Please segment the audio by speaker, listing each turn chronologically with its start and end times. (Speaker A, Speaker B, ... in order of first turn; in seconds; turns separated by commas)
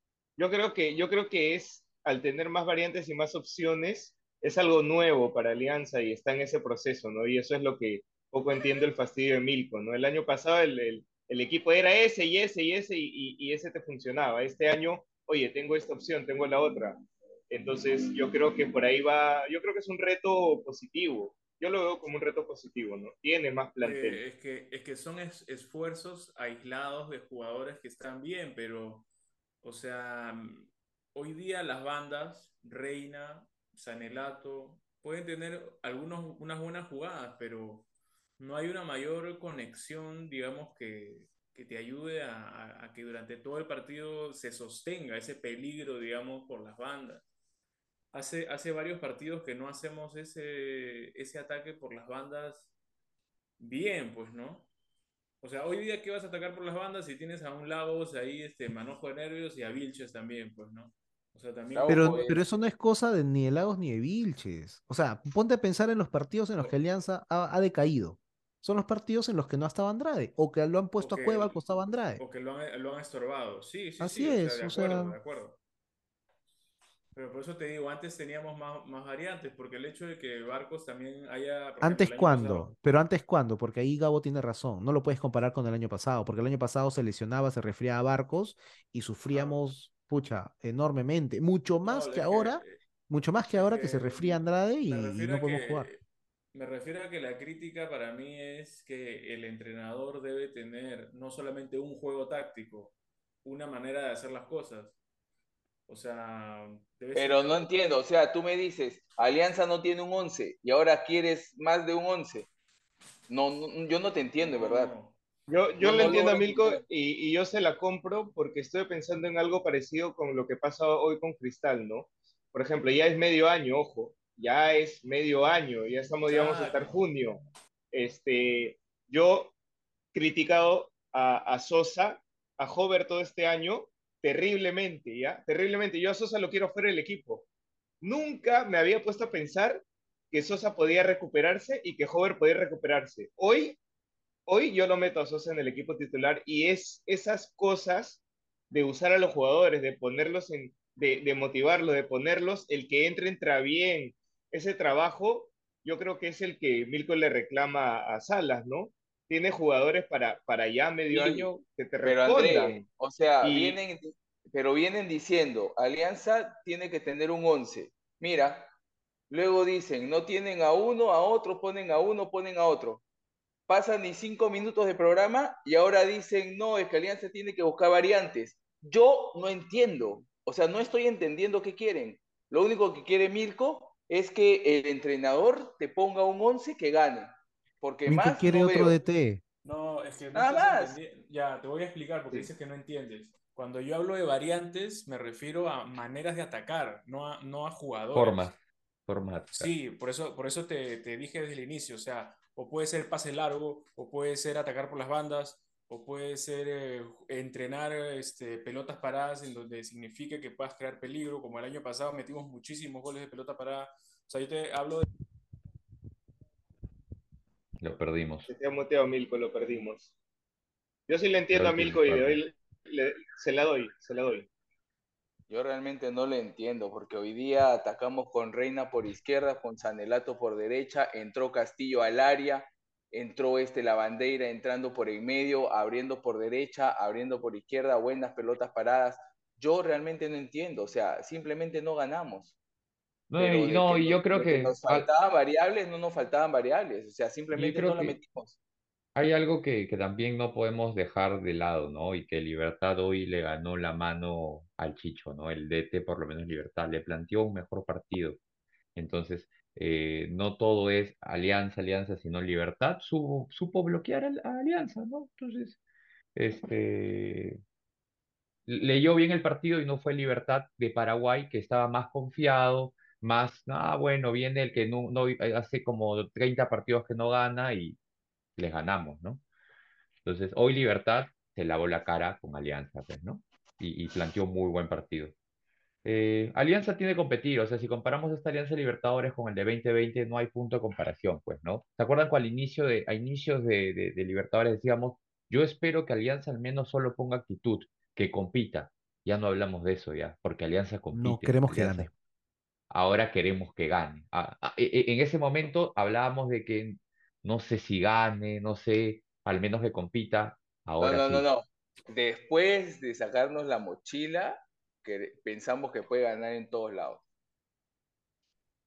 Speaker A: 0.4-17.0, Speaker A: 17.5-24.2, Speaker B: 23.8-29.1, Speaker B: 29.6-37.9, Speaker B: 38.4-47.2, Speaker B: 48.1-52.7, Speaker B: 53.6-54.7, Speaker B: 55.4-62.3, Speaker C: 61.7-62.4, Speaker D: 61.9-72.2, Speaker B: 71.0-71.6, Speaker B: 72.2-75.6, Speaker D: 74.0-75.2, Speaker B: 77.1-82.7, Speaker D: 81.8-95.9, Speaker B: 89.3-89.6, Speaker B: 91.8-92.8, Speaker B: 93.4-96.0, Speaker B: 96.5-105.0, Speaker B: 105.9-107.7, Speaker C: 107.1-112.5, Speaker C: 113.3-114.9, Speaker B: 114.4-115.2, Speaker A: 115.5-127.4, Speaker C: 115.8-116.8, Speaker B: 115.9-116.2, Speaker B: 126.3-127.0, Speaker A: 127.9-129.5, Speaker A: 130.1-137.4, Speaker A: 138.0-143.8, Speaker A: 144.5-162.8, Speaker C: 161.1-161.5, Speaker C: 162.0-168.7, Speaker A: 163.4-163.8, Speaker C: 169.3-173.0, Speaker C: 173.7-188.9, Speaker D: 188.1-189.4, Speaker B: 189.6-198.5, Speaker C: 190.3-191.0, Speaker E: 198.1-199.7, Speaker B: 199.5-215.1, Speaker E: 217.8-218.5, Speaker A: 218.5-220.1, Speaker A: 221.1-224.5, Speaker E: 221.5-222.4, Speaker C: 225.5-242.5, Speaker E: 243.3-245.1, Speaker C: 243.4-248.6, Speaker E: 247.5-248.2, Speaker E: 249.1-258.4, Speaker E: 258.9-265.8, Speaker E: 266.4-267.6, Speaker E: 268.7-278.0, Speaker E: 278.6-279.4, Speaker E: 280.2-285.3, Speaker E: 286.0-302.1, Speaker D: 301.1-302.1, Speaker E: 302.9-311.4, Speaker C: 311.0-317.2